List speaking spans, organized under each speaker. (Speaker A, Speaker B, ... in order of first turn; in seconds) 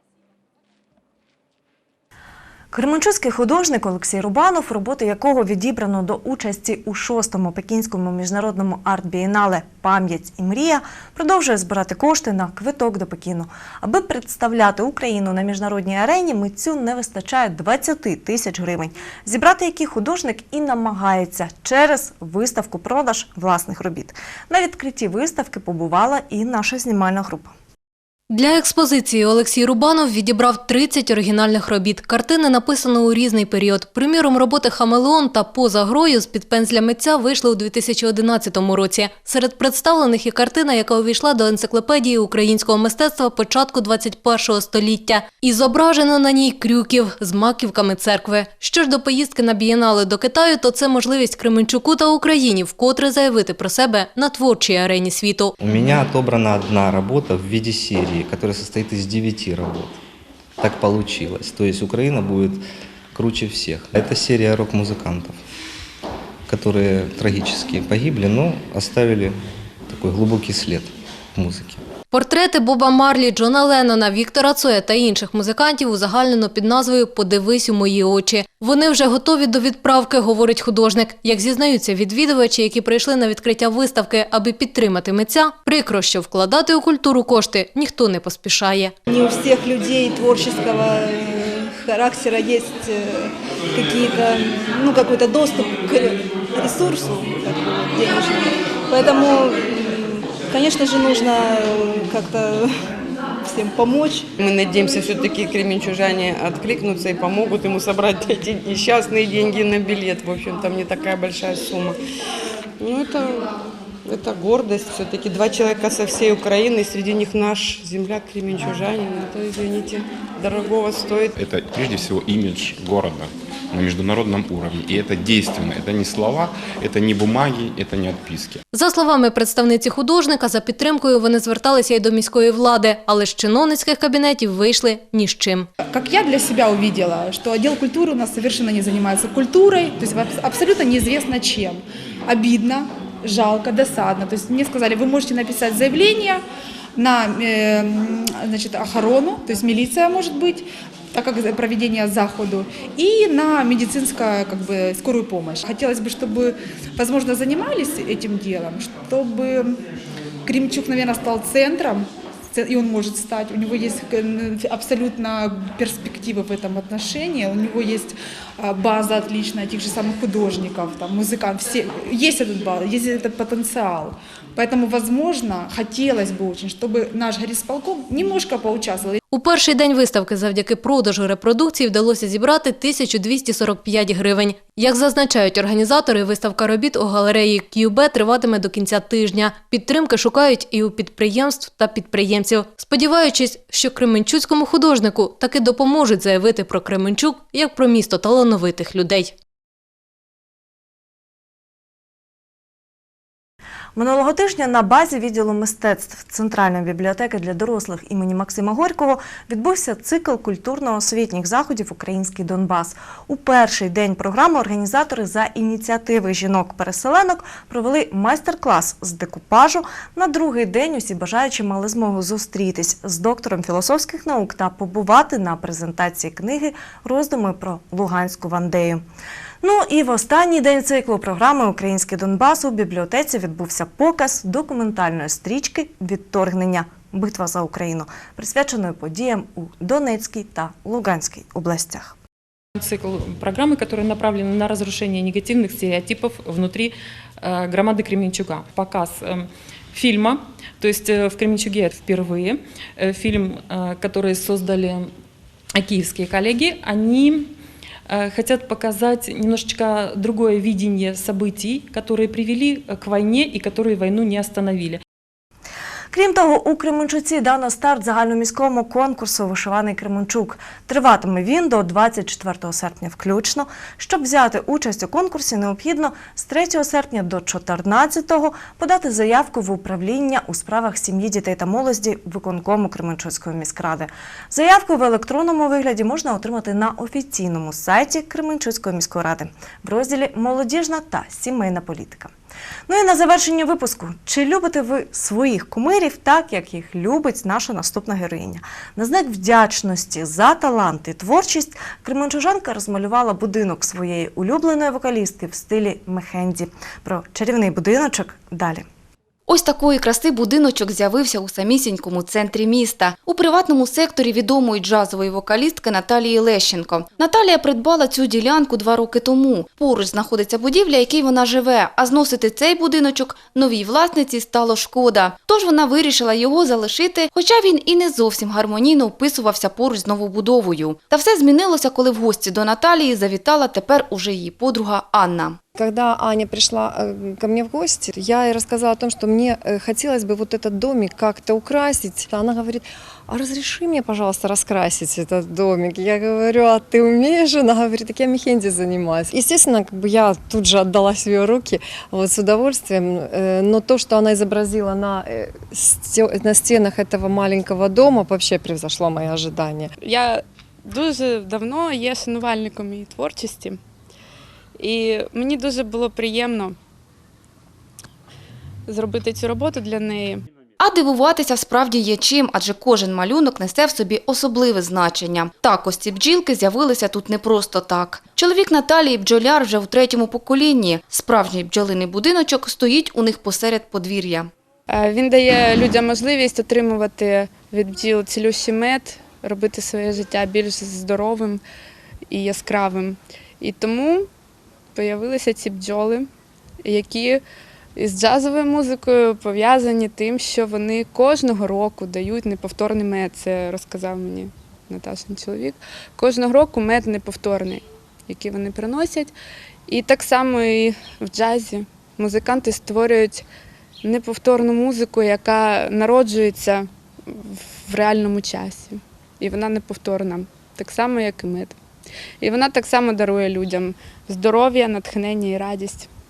Speaker A: 2.7-27.5, 203.9-229.0, 229.6-242.2, 266.1-292.3, 292.9-308.9
Speaker B: 28.3-55.5, 72.1-88.9, 128.7-135.7, 179.3-199.3
Speaker C: 55.6-60.0, 60.6-65.4, 66.5-71.8
Speaker D: 89.1-102.7, 103.5-104.3
Speaker E: 104.4-112.0, 112.8-113.5, 114.0-121.3
Speaker F: 121.4-128.6
Speaker G: 135.8-146.4, 146.9-159.8, 160.4-179.2
Speaker H: 242.8-255.1, 255.8-257.6, 258.1-265.0
Speaker I: 309.5-335.6, 370.8-384.5
Speaker J: 335.8-359.9
Speaker K: 360.0-363.8, 364.8-366.8, 368.9-370.4, 384.9-391.6, 392.3-394.3, 394.9-396.3, 396.8-397.4, 397.9-409.4, 409.9-413.4, 414.0-421.8, 422.4-426.1